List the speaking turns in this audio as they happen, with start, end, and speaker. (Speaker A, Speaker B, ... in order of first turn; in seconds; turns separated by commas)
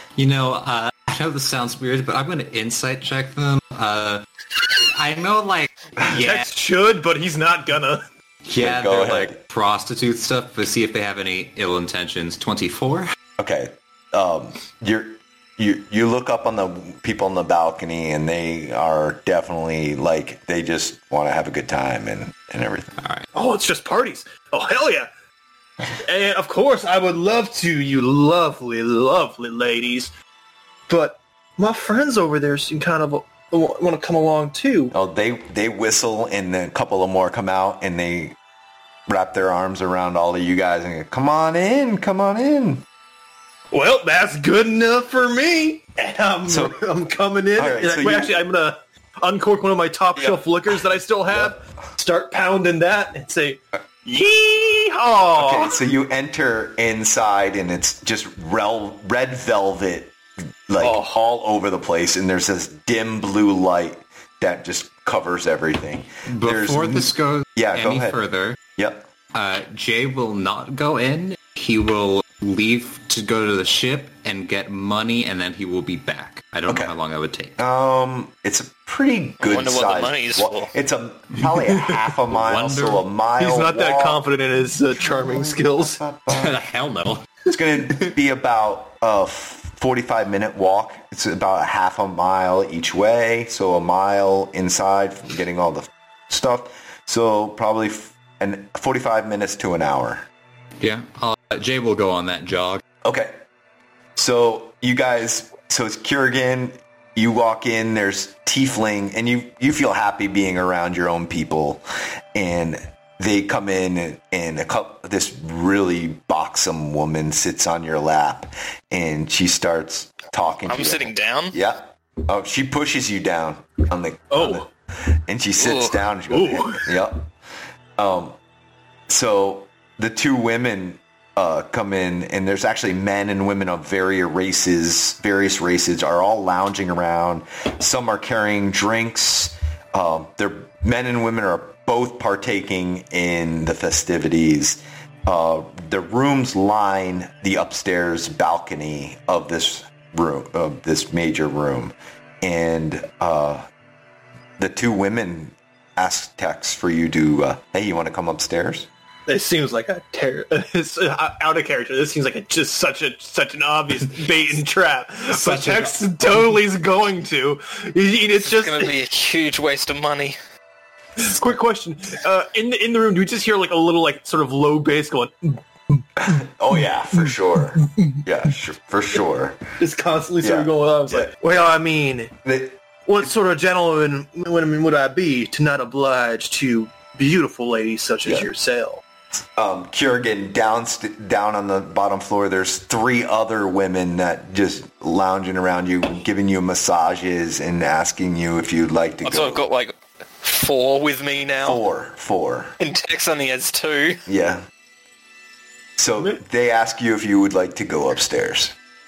Speaker A: 0.2-6.5, Speaker B: 6.0-8.1, Speaker A: 8.5-13.1, Speaker C: 8.5-9.4, Speaker C: 13.4-23.0, Speaker A: 23.0-23.3, Speaker B: 23.3-25.1, Speaker B: 26.0-30.1, Speaker B: 30.9-34.9, Speaker C: 34.9-38.4, Speaker C: 39.1-42.8, Speaker B: 43.7-55.8, Speaker C: 46.5-46.8, Speaker C: 47.6-48.4, Speaker C: 50.2-50.4, Speaker C: 51.3-51.6, Speaker C: 55.4-60.2, Speaker C: 60.7-68.2, Speaker B: 60.8-61.2, Speaker A: 66.3-68.6, Speaker C: 68.8-69.1, Speaker A: 69.3-77.6, Speaker C: 76.7-76.9, Speaker C: 77.6-84.2, Speaker D: 79.4-80.7, Speaker A: 82.3-83.0, Speaker B: 83.4-86.0, Speaker C: 85.0-86.6, Speaker A: 86.3-87.3, Speaker C: 87.5-100.3, Speaker A: 100.8-102.8, Speaker C: 103.0-103.4, Speaker C: 104.2-111.8, Speaker C: 112.3-127.3, Speaker D: 120.7-121.6, Speaker B: 124.3-124.7, Speaker D: 125.6-126.0, Speaker B: 126.3-126.8, Speaker C: 128.0-128.4, Speaker C: 129.1-153.7, Speaker C: 154.6-158.9, Speaker B: 159.3-168.9, Speaker A: 165.3-166.5, Speaker D: 168.4-170.4, Speaker B: 171.2-176.1, Speaker C: 176.2-179.6, Speaker B: 177.8-178.2, Speaker B: 179.8-182.3, Speaker C: 180.4-181.4, Speaker C: 182.4-182.8, Speaker B: 183.1-189.0, Speaker C: 189.6-199.7, Speaker D: 199.2-201.8, Speaker C: 201.6-202.8, Speaker D: 202.8-204.2, Speaker C: 204.3-204.7, Speaker C: 206.0-208.8